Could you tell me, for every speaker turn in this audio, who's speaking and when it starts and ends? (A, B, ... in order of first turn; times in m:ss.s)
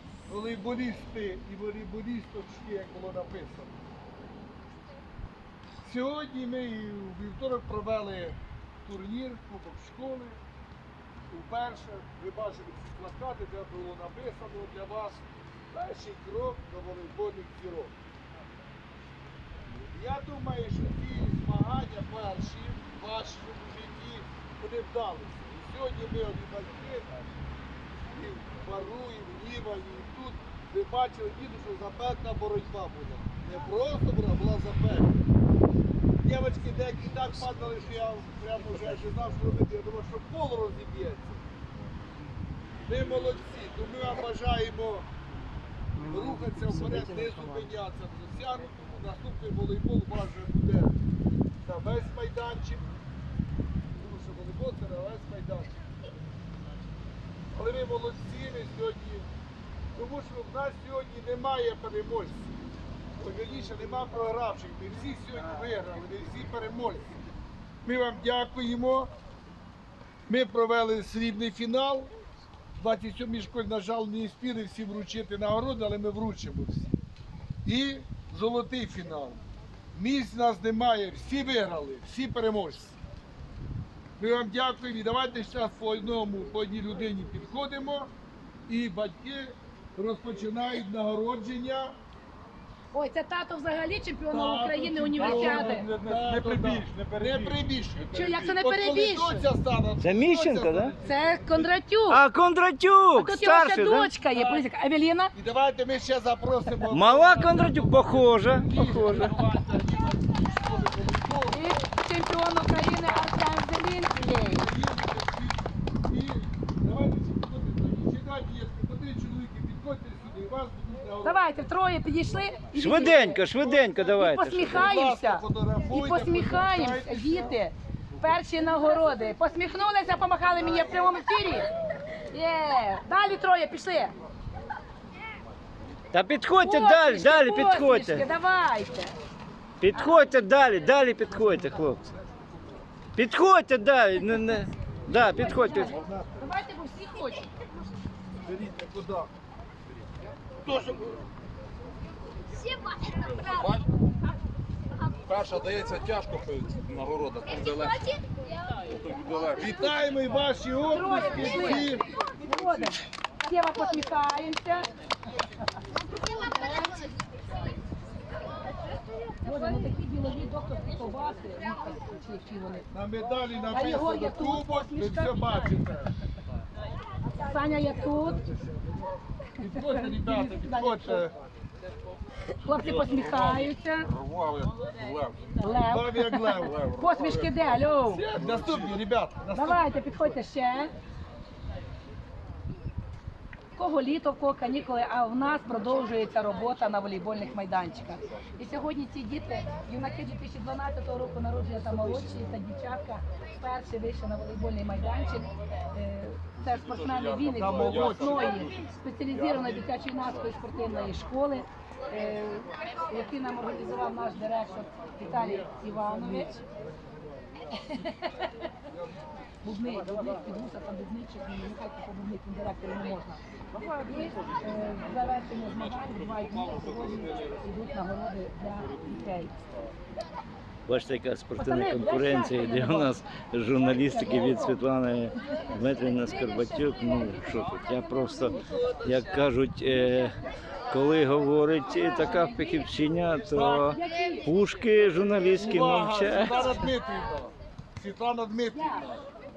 0:00.3-0:03.8 A
0:05.8-0:10.4 A
0:11.3-0:17.9 A
0:19.9-0:27.1 A
0:28.1-0:35.2 A
0:36.2-0:41.4 A
0:42.9-0:45.1 A
0:46.1-0:50.9 A
0:51.6-0:52.8 A
0:54.0-0:55.7 A
0:57.5-0:59.3 A
0:59.9-1:02.5 A
1:03.2-1:07.0 A
1:07.8-1:09.1 A
1:10.3-1:12.1 A
1:12.8-1:16.9 A
1:17.6-1:19.4 A
1:19.9-1:23.0 A
1:24.2-1:28.1 A
1:28.7-1:32.0 A
1:32.9-1:35.9 B
1:34.3-1:41.7 A
1:35.2-1:38.3 C
1:38.1-1:39.5 B
1:40.0-1:40.9 D
1:41.0-1:42.2 B
1:42.1-1:44.1 D
1:43.2-1:45.3 B
1:44.3-1:44.6 A
1:45.3-1:51.6 A
1:46.9-1:49.4 D
1:51.5-1:54.7 B
1:54.4-2:01.4 A
2:01.2-2:03.4 B
2:02.7-2:04.9 D
2:03.0-2:03.9 A
2:04.2-2:11.7 B
2:04.7-2:07.6 A
2:12.3-2:14.1 B
2:16.1-2:18.3 D
2:16.6-2:19.1 B
2:19.8-2:22.1 D
2:23.2-2:25.9 D
2:25.3-2:27.5 B
2:25.8-2:26.5 A
2:28.4-2:29.3 A
2:33.4-2:33.8 C
2:35.2-2:38.2 C
2:38.9-2:39.8 C
2:39.6-2:42.1 A
2:40.9-2:44.9 B
2:46.3-2:47.0 B
2:49.4-2:52.8 B
2:52.9-2:56.1 A
2:53.7-2:55.4 B
2:57.3-2:58.4 B
2:59.6-3:01.3 A
3:00.0-3:01.3 B
3:02.6-3:04.1 B
3:02.9-3:05.5 C
3:05.6-3:08.2 B
3:05.8-3:06.8 A
3:06.6-3:07.5 C
3:08.1-3:09.8 A
3:08.4-3:09.0 C
3:09.5-3:10.9 B
3:13.8-3:36.6 B
3:26.9-3:28.7 C
3:27.6-3:28.4 A
3:35.2-3:36.5 A
3:37.8-3:38.4 B
3:39.6-3:43.4 B
3:44.0-3:49.5 B
3:50.9-4:00.4 D
3:51.6-3:53.2 B
3:53.9-3:54.8 B
3:56.1-3:57.6 B
4:00.9-4:06.8 D
4:02.0-4:02.8 B
4:03.5-4:04.0 A
4:03.9-4:04.5 B
4:05.5-4:09.2 A
4:08.7-4:09.1 B